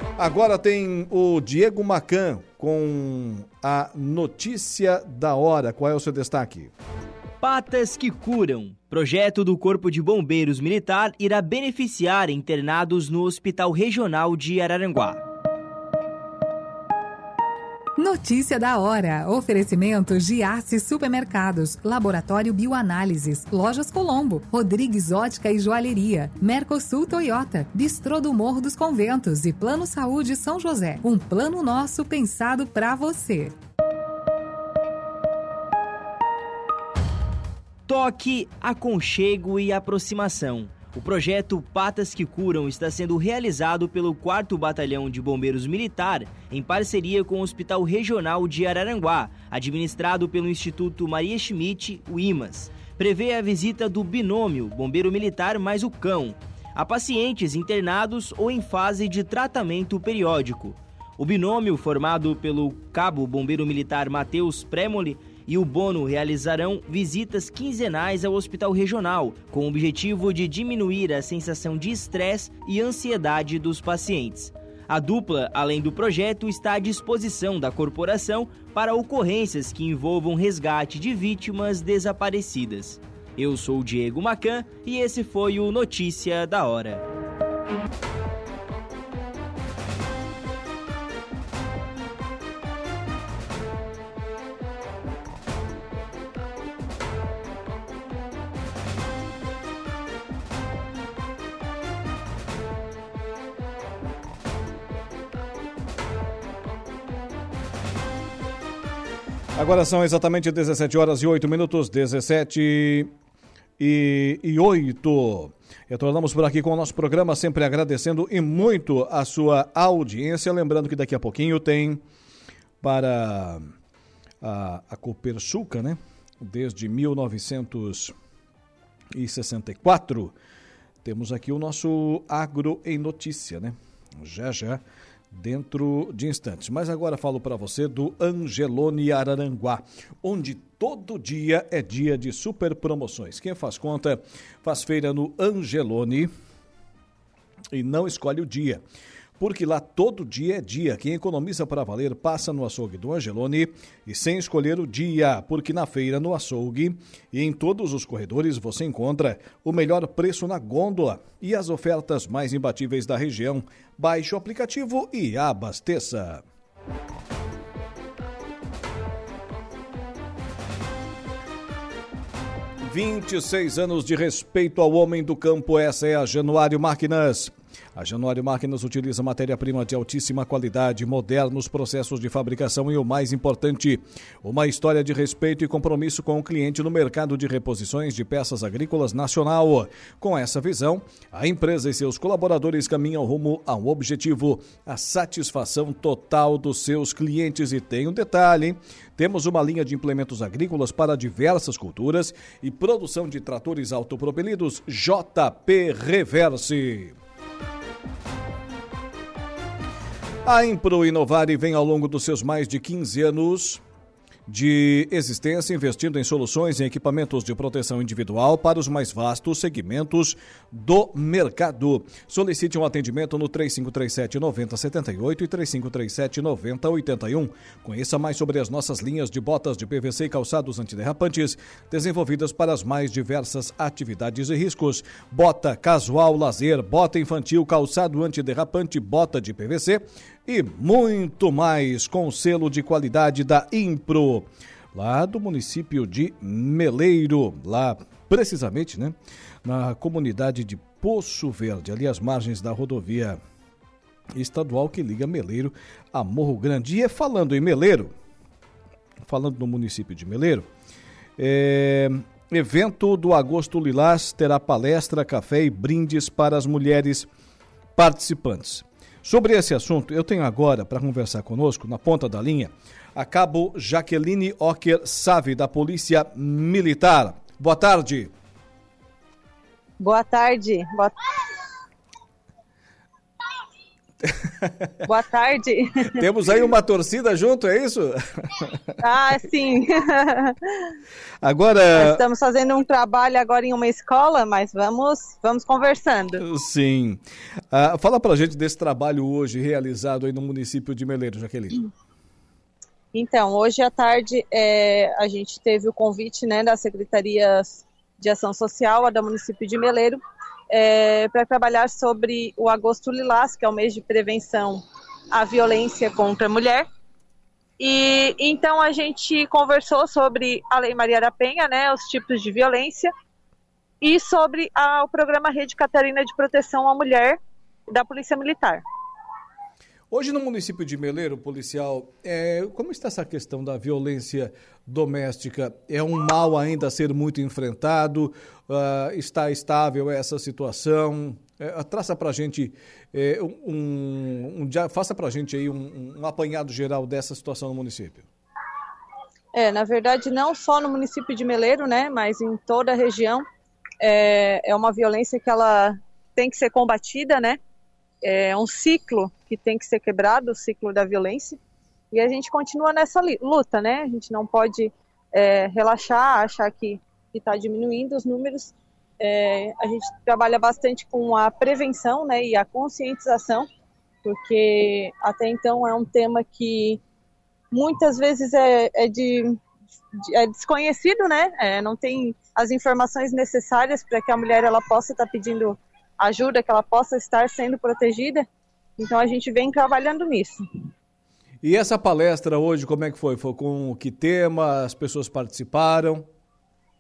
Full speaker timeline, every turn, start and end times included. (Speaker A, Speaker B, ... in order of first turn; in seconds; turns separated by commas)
Speaker A: 0.2-6.7, Speaker B: 7.4-15.2, Speaker C: 18.0-33.5, Speaker B: 37.9-87.0, Speaker A: 109.6-113.1, Speaker A: 113.8-122.0, Speaker A: 122.8-123.7, Speaker A: 124.4-128.1, Speaker A: 129.1-130.3, Speaker A: 131.0-146.3, Speaker A: 147.7-148.8, Speaker A: 149.4-166.4, Speaker A: 172.8-207.2, Speaker A: 210.4-213.8, Speaker A: 214.5-253.4, Speaker A: 254.3-258.1, Speaker A: 259.2-260.7, Speaker A: 261.4-267.3, Speaker A: 268.0-278.3, Speaker D: 280.0-281.1, Speaker A: 284.3-284.9, Speaker D: 285.1-286.1, Speaker A: 286.1-288.8, Speaker D: 289.0-290.6, Speaker A: 291.4-292.2, Speaker D: 292.0-296.4, Speaker A: 296.4-301.8, Speaker D: 303.1-310.2, Speaker D: 310.7-316.9, Speaker D: 317.8-323.1, Speaker D: 324.0-327.4, Speaker D: 327.9-328.8, Speaker A: 330.1-348.3, Speaker D: 349.5-353.4, Speaker D: 354.0-357.6, Speaker D: 358.2-361.6, Speaker D: 362.1-373.7, Speaker D: 374.3-377.0, Speaker D: 377.7-379.6, Speaker D: 380.3-388.4, Speaker D: 389.0-390.6, Speaker A: 391.6-396.3